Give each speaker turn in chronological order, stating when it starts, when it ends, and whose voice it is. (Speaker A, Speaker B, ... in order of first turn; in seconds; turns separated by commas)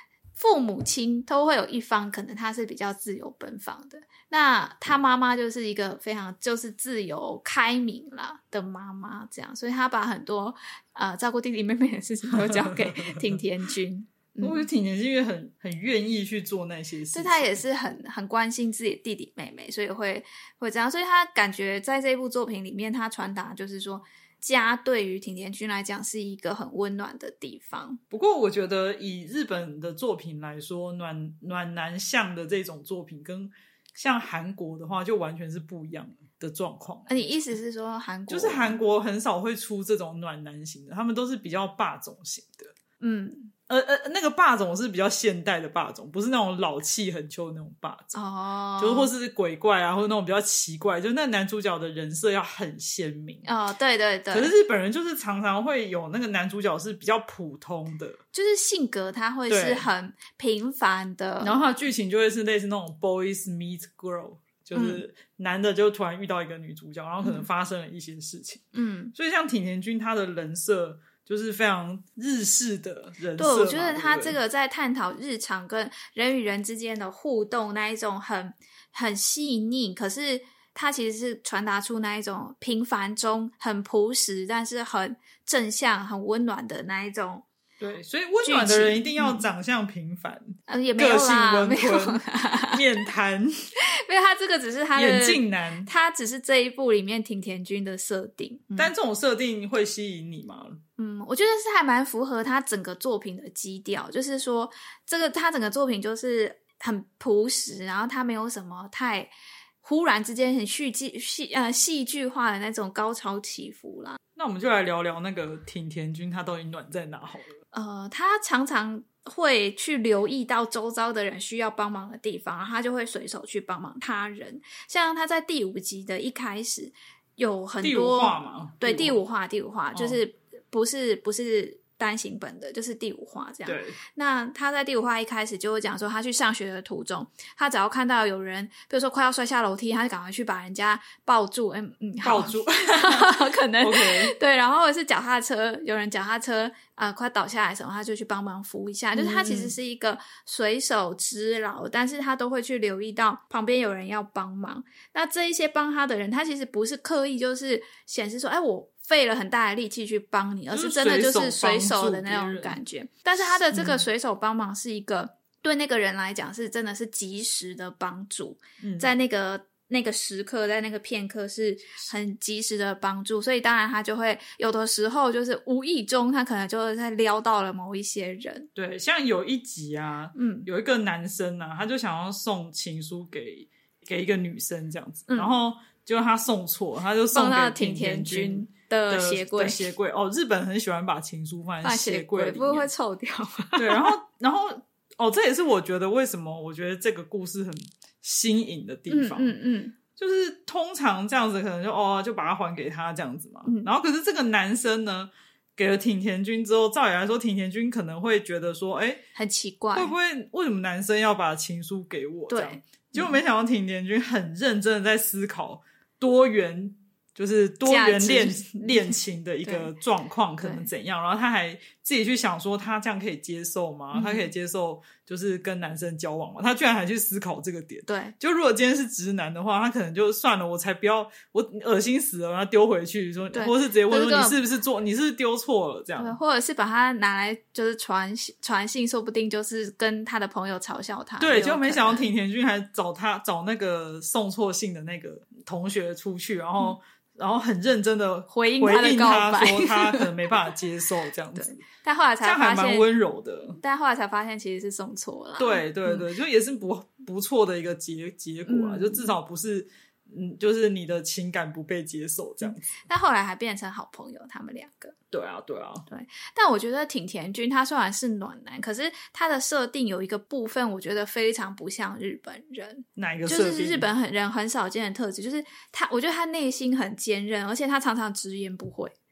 Speaker A: 0.4-14.6, Speaker B: 12.3-13.3, Speaker B: 14.4-17.6, Speaker A: 17.1-28.0, Speaker B: 28.1-37.2, Speaker A: 37.1-38.8, Speaker B: 38.3-42.7, Speaker A: 43.0-43.5, Speaker B: 43.7-48.2, Speaker A: 48.1-49.1, Speaker B: 48.8-53.5, Speaker A: 53.4-54.5, Speaker B: 54.3-58.2, Speaker A: 58.3-61.6, Speaker B: 59.5-59.9, Speaker B: 61.4-74.4, Speaker A: 64.7-65.0, Speaker A: 68.7-69.1, Speaker A: 73.4-87.4, Speaker B: 87.8-93.5, Speaker A: 88.4-89.5, Speaker A: 90.7-92.8, Speaker A: 93.9-98.9, Speaker B: 94.9-95.9, Speaker B: 98.8-100.8, Speaker A: 101.0-114.2, Speaker B: 114.3-117.5, Speaker A: 117.7-178.7, Speaker B: 127.8-129.2, Speaker B: 129.9-130.2, Speaker B: 133.7-134.0, Speaker B: 142.2-144.3, Speaker B: 149.1-149.7, Speaker B: 160.7-162.8, Speaker B: 163.5-164.0, Speaker B: 168.8-169.1, Speaker B: 178.7-192.9, Speaker A: 180.3-180.7, Speaker A: 185.3-185.5, Speaker A: 187.3-189.8, Speaker A: 191.8-194.1, Speaker B: 193.8-199.5, Speaker A: 199.1-199.9, Speaker B: 200.2-209.2, Speaker A: 209.3-210.1, Speaker B: 209.9-236.4, Speaker A: 212.5-213.4, Speaker A: 217.8-219.9, Speaker A: 220.6-220.9, Speaker A: 224.1-224.5, Speaker A: 228.1-228.3, Speaker A: 233.5-234.6, Speaker A: 236.2-242.3, Speaker B: 241.4-251.8, Speaker A: 248.5-250.3, Speaker A: 251.6-253.1, Speaker B: 252.4-253.8, Speaker A: 253.8-256.2, Speaker B: 255.6-263.0, Speaker A: 258.7-259.3, Speaker A: 262.6-265.1, Speaker B: 265.3-266.1, Speaker A: 266.1-279.1, Speaker B: 273.1-274.1